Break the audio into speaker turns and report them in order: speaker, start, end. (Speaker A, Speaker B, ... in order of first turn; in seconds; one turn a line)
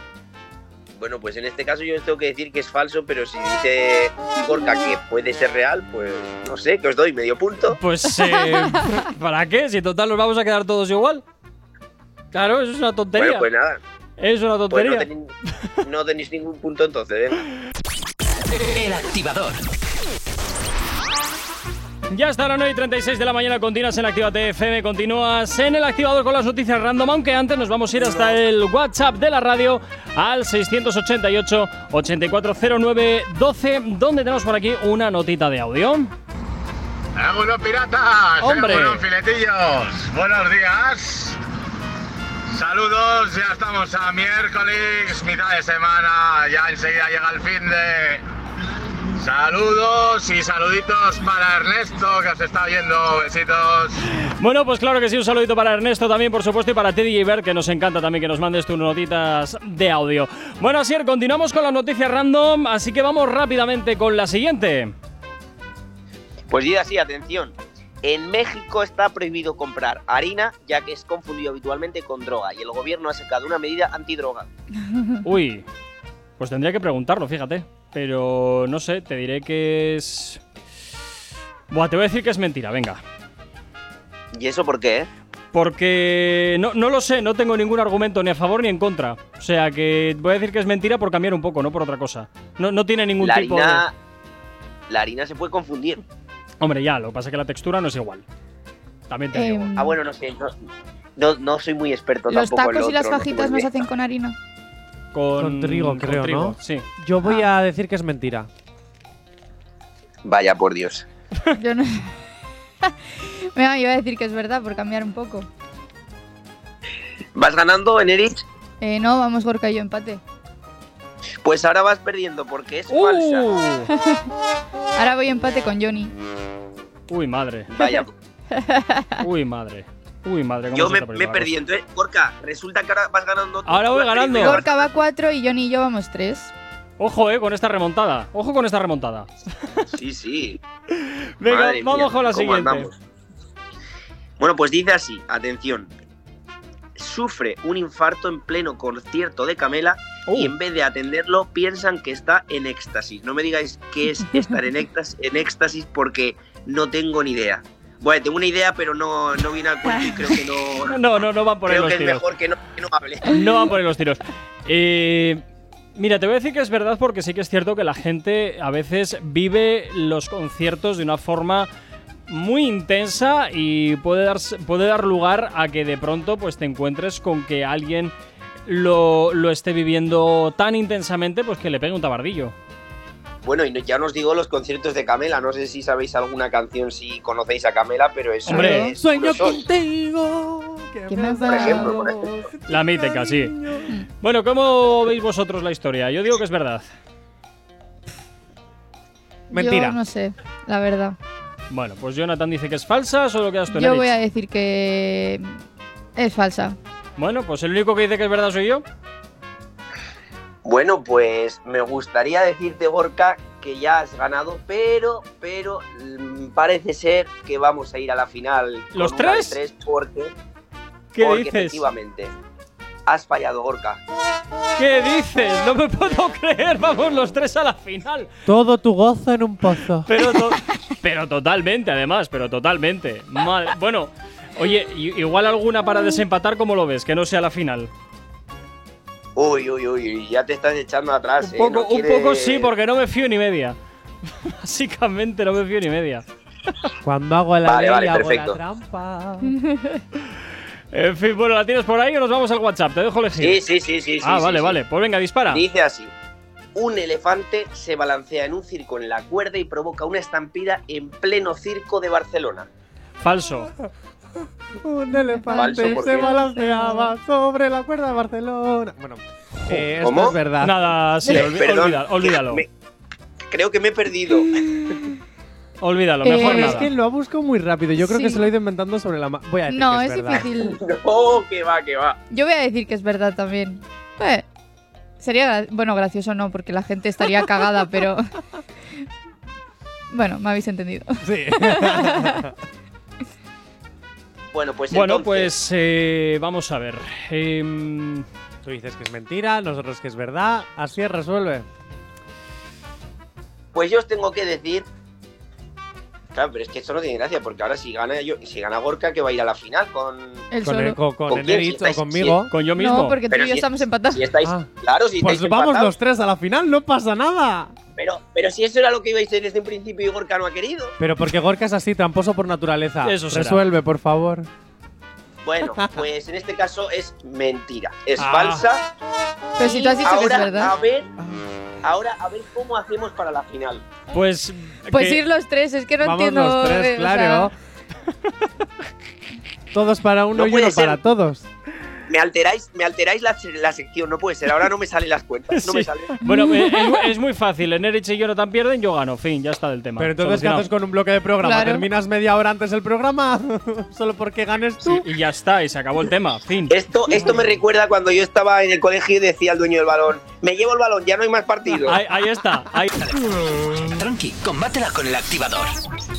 Speaker A: 1.0-7.8
Speaker B: 7.7-11.2
Speaker B: 12.3-13.5
Speaker A: 13.1-13.8
Speaker B: 14.2-15.1
Speaker A: 14.7-15.3
Speaker A: 15.8-17.4
Speaker C: 18.7-19.6
Speaker B: 22.1-36.1
Speaker A: 28.0-28.4
Speaker D: 37.1-41.4
Speaker B: 38.4-39.0
Speaker D: 42.5-48.2
Speaker D: 49.1-54.0
Speaker B: 54.1-64.9
Speaker A: 66.5-74.5
Speaker B: 75.2-75.7
Speaker B: 76.4-80.4
Speaker B: 81.7-83.0
Speaker A: 84.3-85.1
Speaker B: 85.5-93.8
Speaker A: 93.2-93.9
Speaker A: 94.9-96.0
Speaker B: 96.6-98.2
Speaker B: 99.1-99.7
Speaker E: 99.3-100.0
Speaker A: 99.8-100.5
Speaker A: 101.2-103.8
Speaker E: 102.3-104.3
Speaker B: 105.1-106.8
Speaker F: 105.4-108.5
Speaker A: 110.2-111.0
Speaker E: 111.5-112.1
Speaker E: 112.8-115.5
Speaker A: 117.3-118.4
Speaker E: 118.8-120.2
Speaker A: 121.4-123.5
Speaker B: 122.9-123.9
Speaker E: 124.0-124.3
Speaker E: 125.0-126.1
Speaker B: 127.1-127.7
Speaker A: 127.7-128.1
Speaker E: 127.8-129.2
Speaker B: 129.2-131.5
Speaker A: 130.7-134.9
Speaker B: 133.7-134.6
Speaker E: 134.4-136.5
Speaker B: 137.0-139.8
Speaker A: 139.9-140.6
Speaker B: 141.0-142.9
Speaker A: 141.4-143.0
Speaker A: 144.4-145.9
Speaker A: 146.9-161.0
Speaker B: 150.2-150.5
Speaker B: 160.8-162.2
Speaker A: 161.7-163.3
Speaker B: 163.2-165.4
Speaker B: 165.9-171.7
Speaker B: 172.3-178.1
Speaker B: 178.7-182.5
Speaker A: 183.4-189.6
Speaker E: 188.4-188.9
Speaker B: 188.5-188.9
Speaker F: 189.0-193.9
Speaker E: 191.1-191.9
Speaker A: 191.4-192.4
Speaker B: 192.7-193.5
Speaker B: 194.2-196.8
Speaker F: 199.5-200.0
Speaker E: 199.5-201.2
Speaker B: 201.7-204.1
Speaker E: 203.7-205.5
Speaker E: 206.2-206.8
Speaker B: 207.2-208.8
Speaker A: 210.6-220.3
Speaker B: 218.9-219.6
Speaker B: 221.1-221.8
Speaker A: 221.2-222.3
Speaker A: 223.1-224.0
Speaker B: 224.8-228.3
Speaker F: 228.4-230.1
Speaker B: 230.1-237.9
Speaker A: 239.3-242.7
Speaker B: 241.4-246.2
Speaker F: 247.0-249.5
Speaker A: 247.6-248.6
Speaker B: 250.9-253.6
Speaker A: 253.4-254.8
Speaker B: 254.2-255.6
Speaker A: 255.5-256.1
Speaker A: 256.7-262.7
Speaker B: 263.2-263.7
Speaker F: 264.4-270.9
Speaker E: 265.1-267.1
Speaker A: 265.6-266.3
Speaker A: 269.9-270.4
Speaker B: 270.6-272.6
Speaker A: 271.2-272.7
Speaker A: 273.5-274.6
Speaker B: 275.8-276.9
Speaker E: 276.2-276.9
Speaker F: 276.3-280.4
Speaker E: 278.0-278.4
Speaker E: 279.7-280.8
Speaker A: 280.6-282.2
Speaker E: 282.3-284.4
Speaker E: 285.2-288.2
Speaker E: 290.1-292.5
Speaker F: 291.2-292.5
Speaker A: 294.5-295.5
Speaker B: 294.9-298.2
Speaker F: 298.6-301.7
Speaker A: 303.7-304.9
Speaker A: 306.3-310.5
Speaker E: 310.5-311.0
Speaker F: 310.6-312.5
Speaker A: 311.3-312.4
Speaker B: 312.5-313.2
Speaker E: 312.8-314.3
Speaker A: 313.3-315.9
Speaker F: 314.4-314.7
Speaker F: 315.2-317.7
Speaker A: 317.9-320.9
Speaker F: 321.0-324.5
Speaker B: 323.0-323.6
Speaker A: 325.4-328.9
Speaker B: 328.2-328.6
Speaker E: 329.6-330.7
Speaker A: 329.6-331.1
Speaker A: 331.8-333.9
Speaker B: 334.1-335.2
Speaker E: 334.9-337.5
Speaker F: 336.0-337.5
Speaker F: 339.7-341.5
Speaker A: 340.3-341.0
Speaker A: 342.1-346.2
Speaker B: 345.5-350.7
Speaker E: 346.2-347.0
Speaker F: 350.0-355.1
Speaker E: 351.4-351.8
Speaker B: 354.9-356.7
Speaker A: 356.7-362.0
Speaker B: 361.7-362.9
Speaker C: 362.9-365.8